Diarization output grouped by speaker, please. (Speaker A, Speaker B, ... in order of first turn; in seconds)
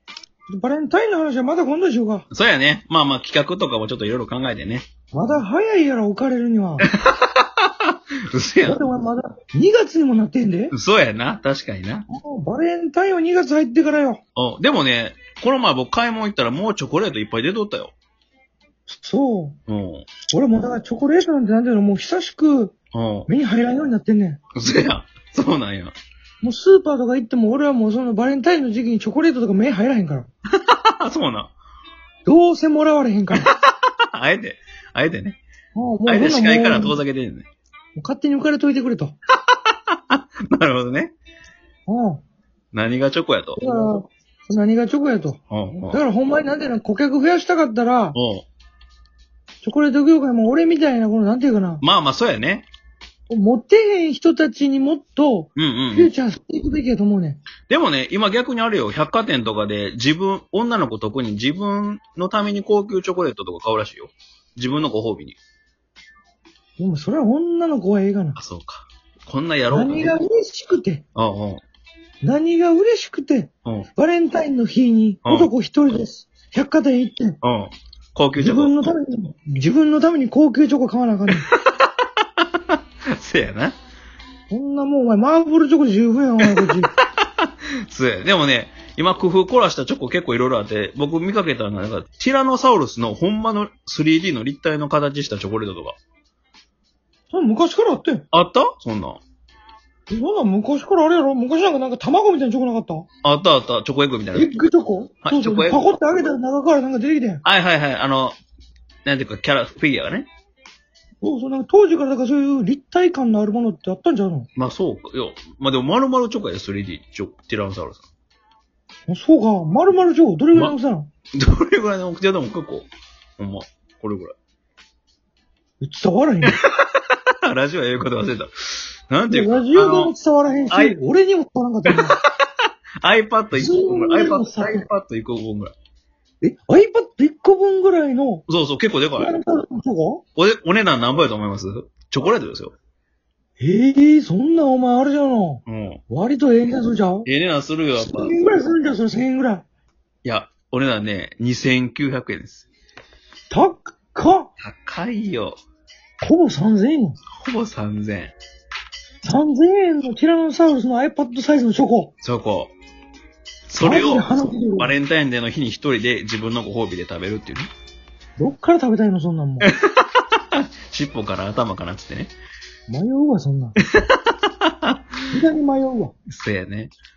Speaker A: 0.5-2.2, 5.1-6.9, 8.6-10.7, 12.1-14.2, 18.9-19.6, 20.3-22.7, 23.3-24.4, 26.4-30.3, 32.2-33.5, 35.7-37.0, 38.0-39.1, 41.9-42.2, 43.6-48.1, 49.6-51.8, 53.3-57.4, 66.8-68.4, 69.7-71.0, 72.2-77.4, 78.3-81.5, 84.5-86.9, 97.3-98.2, 100.1-103.0, 104.3-107.4, 111.2-114.5, 119.1-121.1, 125.8-126.6, 129.3-132.2, 133.5-134.8, 136.4-138.4, 139.2-140.2, 143.6-147.3, 148.0-149.6, 153.5-154.5, 156.2-157.2, 159.2-162.1, 163.8-164.9, 168.4-169.7, 172.9-173.8, 175.3-176.1
Speaker B: 2.3-4.9, 6.8-8.8, 10.7-12.1, 14.3-17.9, 19.7-20.1, 22.9-23.3, 24.6-25.9, 30.7-31.5, 34.1-35.4, 36.0-37.5, 39.5-41.1, 42.7-43.6, 45.5-46.0, 48.1-48.5, 51.8-52.7, 55.5-56.1, 57.7-65.4, 68.4-70.1, 71.2-71.6, 75.2-75.5, 77.4-78.7, 81.3-81.9, 82.7-83.8, 87.4-96.0, 98.3-99.2, 103.2-104.5, 105.2-105.8, 107.4-108.4, 109.0-110.3, 114.5-118.0, 121.4-124.3, 127.4-130.1, 130.7-131.0, 133.0-135.7, 138.5-139.3, 140.3-142.7, 145.7-146.0, 147.2-148.3, 150.2-152.7, 154.6-155.6, 157.3-158.3, 162.2-162.7, 163.7-167.7, 169.6-172.3, 173.9-175.0, 176.3-176.9